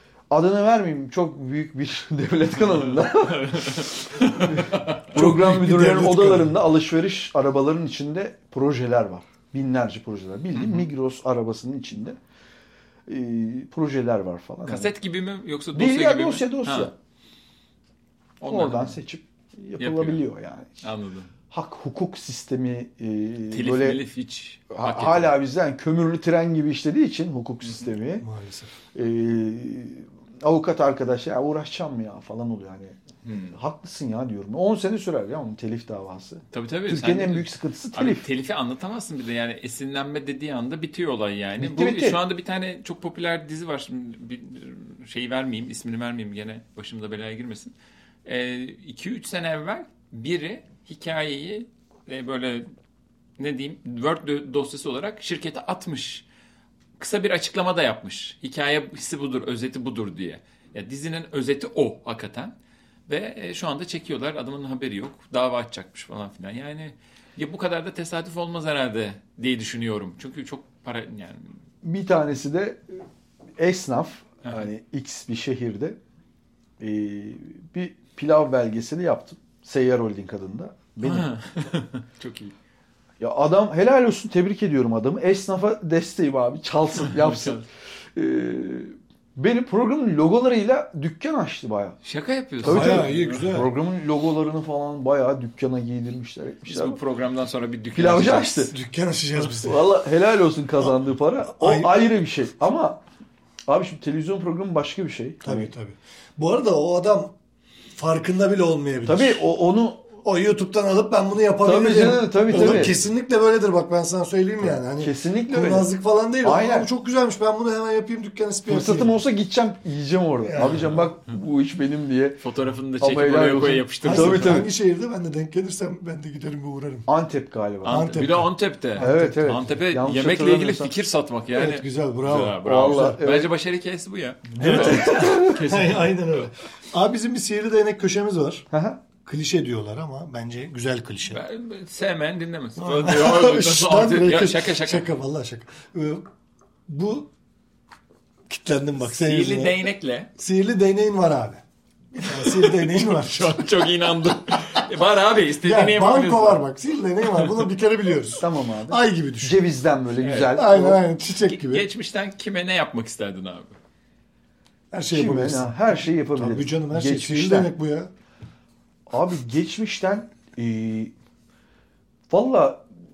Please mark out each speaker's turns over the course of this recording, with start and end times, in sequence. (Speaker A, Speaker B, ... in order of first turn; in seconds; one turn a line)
Speaker A: 0.3-12.2
Speaker B: 2.9-5.1
Speaker C: 5.1-6.6
Speaker B: 10.6-10.9
Speaker A: 13.1-14.9
Speaker B: 14.7-16.9
Speaker A: 15.7-16.9
Speaker B: 18.4-19.0
Speaker A: 18.4-20.7
Speaker B: 19.8-20.2
Speaker B: 20.8-21.3
Speaker A: 21.5-24.0
Speaker B: 23.5-25.4
Speaker A: 24.7-28.3
Speaker C: 28.2-28.7
Speaker A: 28.9-33.0
Speaker B: 33.2-33.6
Speaker A: 33.5-38.2
Speaker B: 36.5-47.7
Speaker A: 41.6-42.2
Speaker B: 48.3-52.7
Speaker B: 53.4-56.2
Speaker B: 57.0-62.5
Speaker B: 63.1-71.6
Speaker A: 71.8-72.8
Speaker A: 73.6-76.0
Speaker A: 76.8-81.3
Speaker B: 81.0-82.5
Speaker A: 83.2-87.6
Speaker B: 87.2-87.5
Speaker A: 88.2-92.0
Speaker B: 92.0-93.3
Speaker A: 92.6-97.0
Speaker C: 92.6-93.7
Speaker B: 96.7-98.7
Speaker A: 97.9-98.7
Speaker C: 98.7-99.9
Speaker A: 99.4-103.0
Speaker C: 101.5-101.9
Speaker A: 103.7-105.7
Speaker C: 105.4-107.3
Speaker C: 108.0-109.5
Speaker A: 109.1-110.0
Speaker C: 110.2-119.2
Speaker A: 111.6-113.0
Speaker A: 114.6-116.9
Speaker A: 118.7-122.4
Speaker C: 120.4-121.1
Speaker B: 122.4-124.7
Speaker A: 123.0-124.7
Speaker C: 124.0-127.1
Speaker A: 127.1-128.1
Speaker B: 127.8-136.5
Speaker C: 127.9-129.6
Speaker A: 129.0-130.9
Speaker C: 131.5-133.2
Speaker A: 132.7-133.5
Speaker A: 134.6-135.6
Speaker C: 135.1-138.7
Speaker A: 138.7-139.0
Speaker C: 139.2-141.4
Speaker B: 141.3-145.1
Speaker C: 142.8-146.2
Speaker C: 146.9-147.3
Speaker C: 148.5-149.8
Speaker B: 149.0-150.3
Speaker C: 150.4-153.7
Speaker B: 152.3-156.7
Speaker C: 155.6-159.6
Speaker B: 157.2-157.7
Speaker A: 158.4-161.0
Speaker B: 160.2-160.5
Speaker C: 160.4-161.9
Speaker B: 161.4-163.8
Speaker C: 164.9-168.1
Speaker A: 165.1-167.7
Speaker A: 169.1-171.1
Speaker A: 172.3-172.8